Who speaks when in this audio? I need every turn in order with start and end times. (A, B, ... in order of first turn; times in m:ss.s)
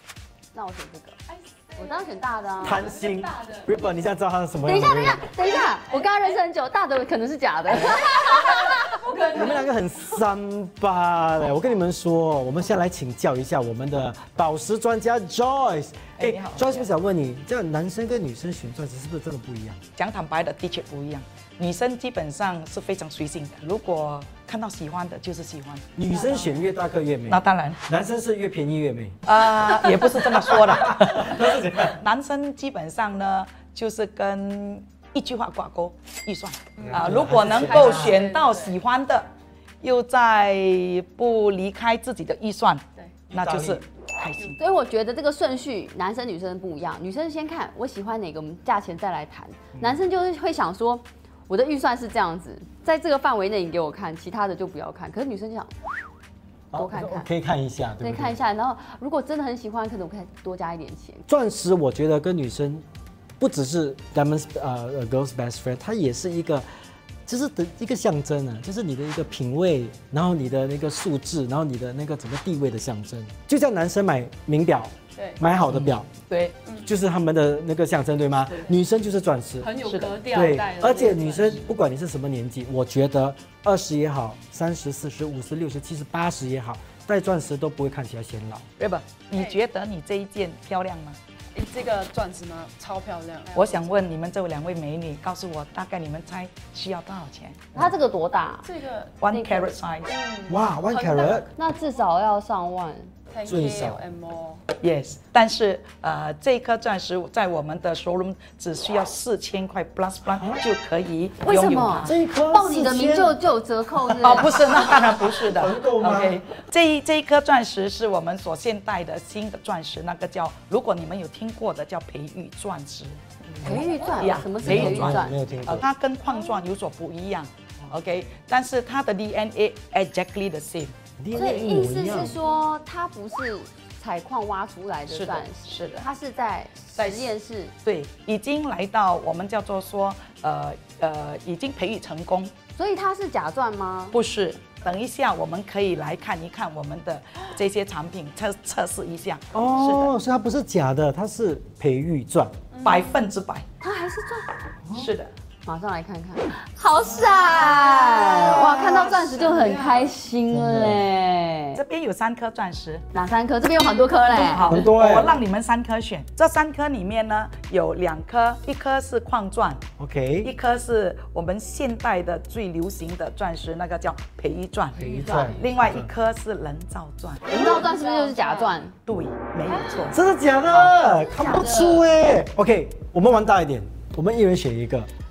0:00.5-0:01.2 A
0:01.3-0:03.7 B
0:01.8-0:02.9 A
0:02.6-0:05.3 C
0:04.6-0:09.1 A
0:07.7-0:08.2 C
0:08.1-0:09.7 B
0:09.2-0:19.8 C
0:16.2-0:16.9 D
0:20.0-0:26.5 D
0:26.0-0:29.2 C
0:27.3-0:27.8 D
0:29.2-0:39.3 D
0:29.9-0:32.0 C
0:36.8-0:38.8 B
0:36.8-0:38.2 C
0:39.8-0:44.6 D
0:43.0-0:43.2 B
0:43.4-0:43.8 C
0:44.6-0:55.7 A
0:49.8-0:50.0 C
0:56.7-0:58.4 C
0:56.7-0:57.3 A
0:58.0-1:01.2 A
1:01.3-1:02.8 C
1:03.4-1:06.7 C
1:07.2-1:16.1 C
1:15.2-1:15.4 B
1:15.7-1:16.6 D
1:16.8-1:19.7 C
1:19.6-1:21.7 B
1:19.8-1:20.2 D
1:20.3-1:28.6 C
1:28.8-1:31.2 D
1:31.5-1:34.0 B
1:33.6-1:37.7 D
1:37.7-1:38.7 A
1:38.6-1:39.2 B
1:39.2-1:40.1 D
1:39.3-1:39.7 A
1:40.0-1:41.4 B
1:40.5-1:41.5 C
1:41.1-1:43.1 A
1:43.3-1:44.6 B
1:43.4-1:44.0 C
1:44.8-1:52.2 D
1:51.4-1:54.5 A
1:52.0-1:53.4 C
1:54.0-1:56.4 C
1:54.2-2:03.2 D
2:03.5-2:03.9 C
2:03.6-2:05.4 A
2:04.2-2:10.9 D
2:04.6-2:05.8 C
2:11.2-2:12.4 C
2:11.3-2:17.7 A
2:15.1-2:16.1 D
2:17.0-2:17.3 D
2:17.8-2:22.5 D
2:22.8-2:24.2 A
2:24.1-2:30.1 D
2:29.5-2:32.5 C
2:32.7-2:33.2 B
2:32.8-2:33.6 D
2:33.8-2:34.5 A
2:34.9-2:35.3 D
2:35.6-2:41.8 A
2:37.0-2:39.6 C
2:38.8-2:40.1 B
2:40.5-2:41.1 C
2:41.8-2:43.0 D
2:43.1-2:44.8 A
2:44.3-2:49.8 D
2:44.7-2:45.3 C
2:50.0-2:50.5 C
2:50.4-2:57.6 D
2:55.0-2:56.1 C
2:55.0-2:55.7 B
2:55.2-2:55.5 A
2:57.5-2:58.9 A
2:57.5-2:58.8 B
2:59.1-3:00.2 D
3:00.1-3:05.1 C
3:01.3-3:02.1 A